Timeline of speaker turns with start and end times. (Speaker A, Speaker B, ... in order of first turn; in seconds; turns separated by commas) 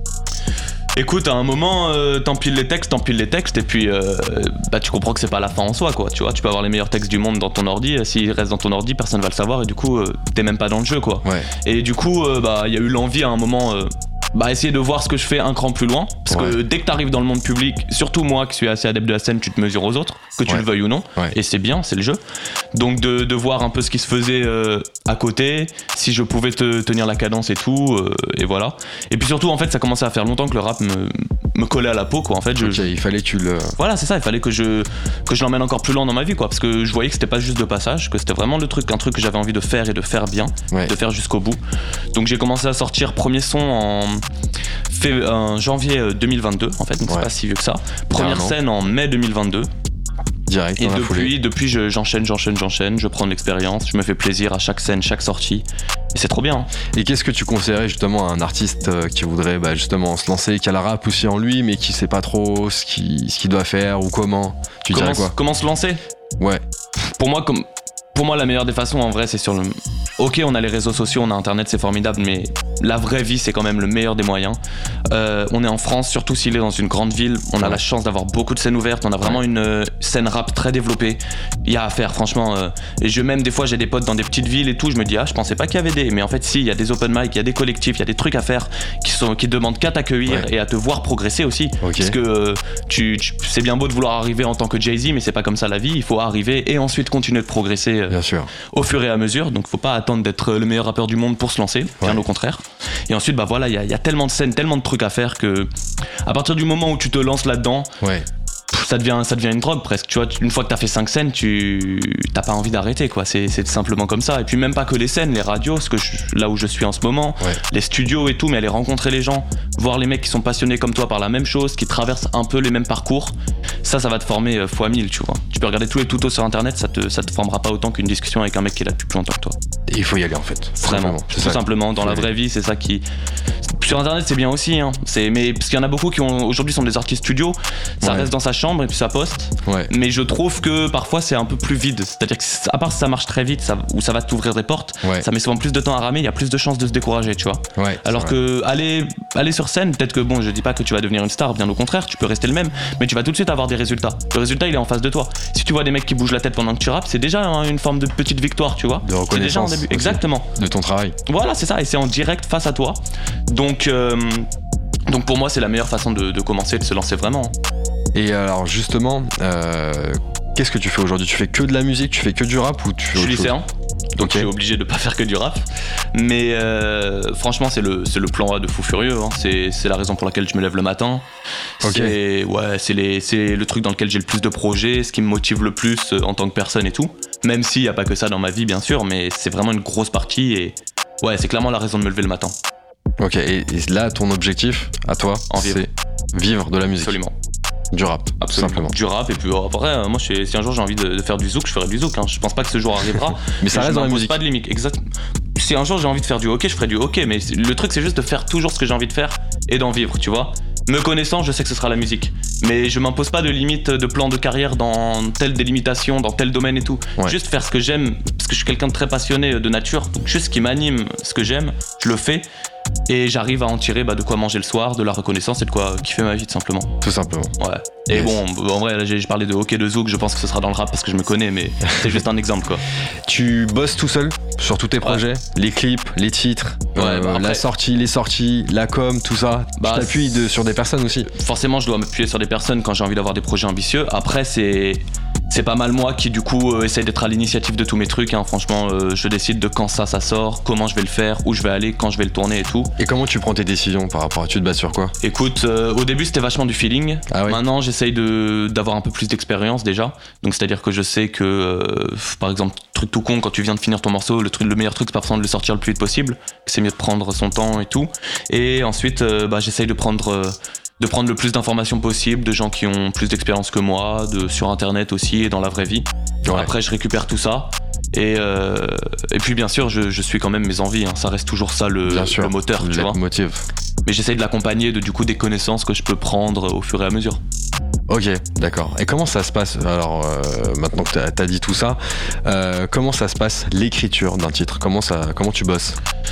Speaker A: 1.0-22.2, Speaker B: 11.2-11.5, Speaker B: 16.3-16.6, Speaker B: 20.5-21.4, Speaker A: 22.7-32.9, Speaker B: 32.6-33.8, Speaker A: 33.8-41.6, Speaker A: 42.1-44.2, Speaker A: 44.9-49.7, Speaker B: 48.1-48.6, Speaker B: 50.5-51.3, Speaker A: 50.8-56.7, Speaker B: 56.9-65.3, Speaker A: 64.9-66.0, Speaker B: 66.4-66.6, Speaker A: 67.0-74.6, Speaker A: 75.1-105.7, Speaker B: 91.8-92.2, Speaker B: 98.1-98.5, Speaker A: 106.2-107.9, Speaker B: 108.0-108.3, Speaker A: 108.7-129.6, Speaker B: 129.9-132.3, Speaker A: 130.8-133.0, Speaker A: 133.7-160.5, Speaker B: 138.0-138.3, Speaker B: 139.6-139.9, Speaker B: 147.8-148.4, Speaker B: 159.0-161.2, Speaker A: 161.3-164.5, Speaker A: 165.1-167.5, Speaker B: 168.1-173.6, Speaker A: 173.1-181.3, Speaker B: 174.2-174.5, Speaker A: 181.8-192.6, Speaker B: 181.8-182.2, Speaker B: 193.2-197.2, Speaker A: 195.5-195.9, Speaker A: 197.0-197.3, Speaker B: 197.9-198.9, Speaker A: 198.4-205.0, Speaker B: 203.5-204.4, Speaker A: 205.6-222.4, Speaker A: 223.1-226.9, Speaker B: 227.0-227.5, Speaker A: 227.6-232.8, Speaker B: 228.1-228.4, Speaker B: 233.2-241.3, Speaker A: 236.9-237.7, Speaker A: 239.8-240.4, Speaker A: 241.2-252.9, Speaker B: 253.0-255.1, Speaker A: 255.2-283.2, Speaker B: 257.3-257.6, Speaker B: 276.4-276.7, Speaker B: 282.1-283.7, Speaker A: 284.1-287.4, Speaker B: 288.1-296.0